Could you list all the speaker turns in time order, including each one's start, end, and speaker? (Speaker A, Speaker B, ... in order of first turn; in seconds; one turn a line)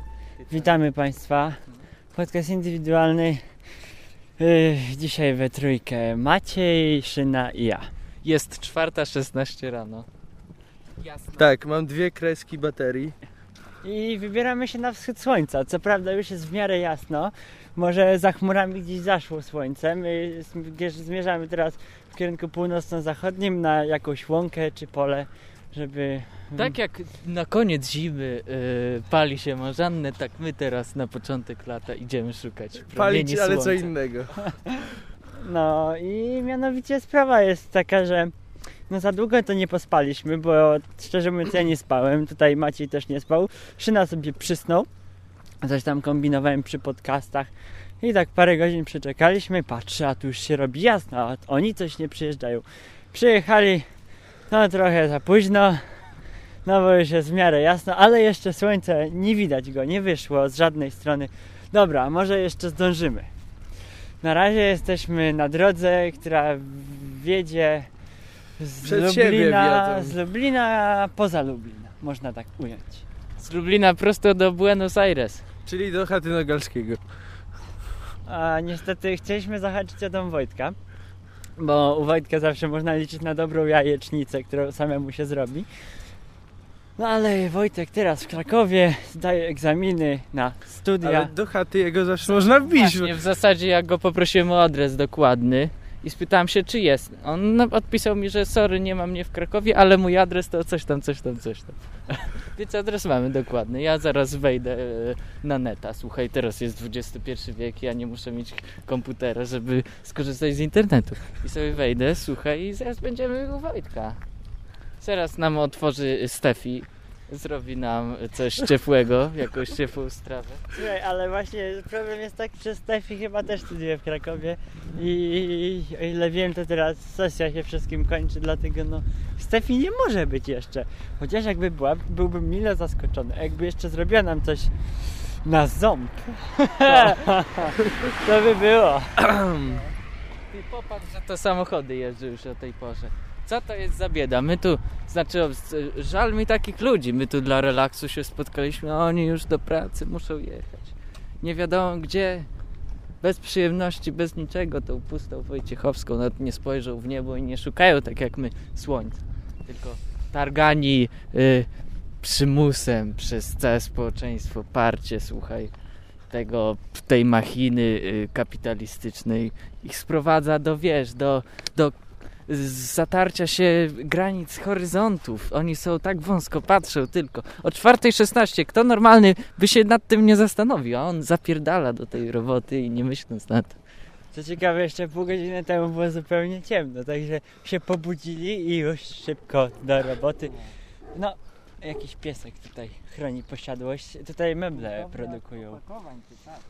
Speaker A: 0.4-0.7
Speaker B: 0.5-1.6
Speaker B: 2.1-3.5
Speaker B: 4.4-7.9
Speaker A: 8.2-10.1
Speaker A: 11.0-11.5
Speaker C: 11.3-13.2
Speaker B: 13.8-26.8
Speaker A: 26.6-33.9
Speaker C: 32.8-34.5
Speaker B: 35.4-38.3
Speaker B: 38.9-44.9
Speaker B: 45.6-53.9
Speaker B: 54.5-56.1
Speaker B: 56.6-63.3
Speaker B: 64.2-67.9
Speaker B: 68.6-73.0
Speaker C: 68.8-70.2
Speaker A: 73.4-75.4
Speaker C: 75.7-77.0
Speaker B: 78.2-80.8
Speaker B: 81.6-85.7
Speaker B: 87.0-91.3
Speaker C: 91.0-93.2
Speaker A: 92.3-114.2
Speaker A: 115.0-120.7
Speaker B: 120.7-139.2
Speaker C: 139.2-139.8
Speaker A: 140.5-152.5
Speaker A: 153.2-161.7
Speaker A: 162.2-165.7
Speaker A: 166.3-183.8
Speaker B: 184.3-190.6
Speaker B: 191.1-195.9